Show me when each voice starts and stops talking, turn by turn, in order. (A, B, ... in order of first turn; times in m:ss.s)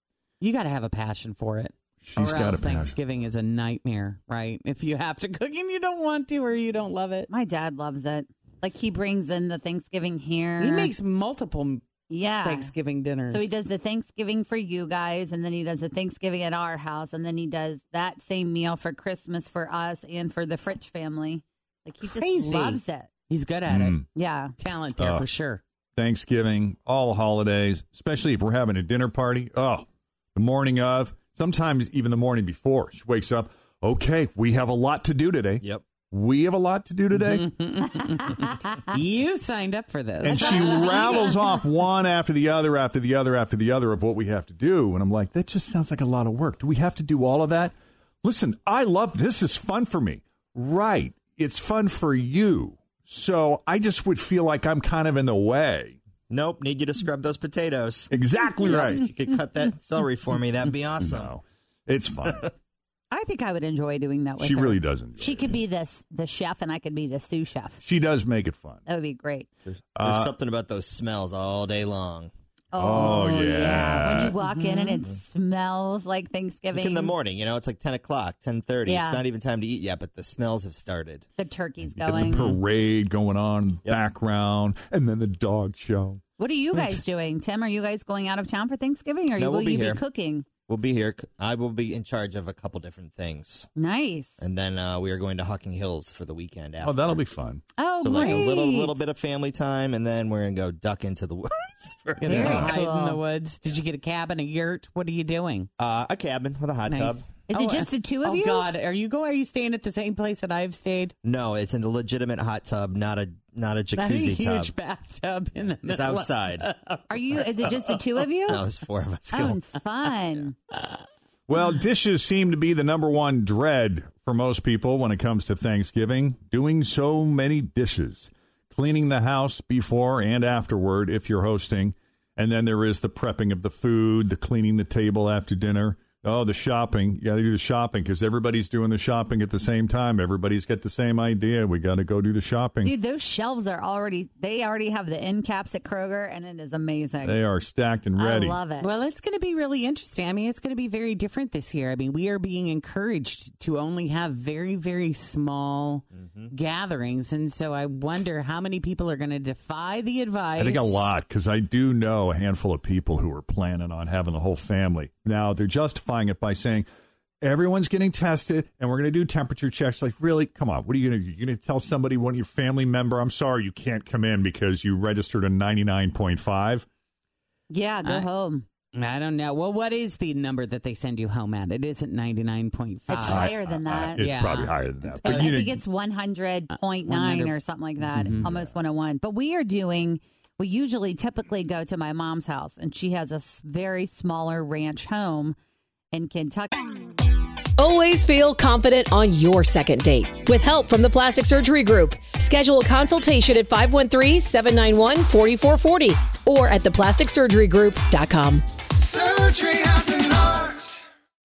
0:00.4-0:07.3 A
0:02.0-0:03.0 B
0:07.3-0:10.9 C
0:10.6-0:11.9 A
0:12.1-0:12.7 C
0:12.4-0:13.5 A
0:13.3-0:23.1 C
0:22.0-0:24.0 A
0:23.7-0:24.1 B
0:24.2-0:24.6 C
0:24.6-0:25.6 A
0:25.0-0:25.3 B
0:26.0-0:37.5 B
0:37.2-0:41.2 A
0:40.2-0:56.0 B
0:40.3-0:41.4 C
0:56.3-0:58.1 D
0:58.1-0:59.1 B
0:58.6-1:01.3 D
1:01.0-1:02.5 B
1:03.1-1:07.8 C
1:04.4-1:05.6 B
1:07.8-1:08.8 B
1:08.9-1:09.5 C
1:09.7-1:12.3 D
1:10.0-1:10.3 B
1:12.7-1:17.1 C
1:12.8-1:14.4 B
1:14.5-1:15.0 A
1:16.7-1:21.3 D
1:18.9-1:19.2 C
1:21.4-1:22.4 C
1:22.0-1:26.2 B
1:22.3-1:22.6 D
1:26.4-1:30.5 C
1:29.4-1:30.0 D
1:30.7-1:33.7 D
1:33.8-1:34.4 C
1:34.4-1:37.2 D
1:36.8-1:37.6 B
1:37.8-1:39.0 C
1:38.0-1:42.7 D
1:38.2-1:38.5 A
1:42.2-1:45.7 A
1:42.3-1:43.2 C
1:45.8-1:47.3 D
1:46.9-1:51.1 A
1:47.5-1:48.7 C
1:51.2-1:54.7 D
1:53.9-1:57.0 A
1:55.8-1:56.7 D
1:57.1-1:58.6 C
1:58.5-1:59.6 D
1:59.3-2:00.6 C
2:01.5-2:22.9 B
2:22.8-2:27.4 C
2:27.2-2:28.6 B
2:28.2-2:28.9 C
2:28.8-2:41.1 A
2:36.1-2:36.5 D
2:40.6-2:46.9 B
2:47.4-2:56.9 B
2:57.7-2:58.7 C
2:58.9-3:03.5 A
3:03.1-3:04.3 C
3:03.2-3:05.8 B
3:04.2-3:05.6 A
3:05.2-3:15.6 C
3:06.7-3:08.5 A
3:16.1-3:16.9 C
3:17.8-3:30.8 E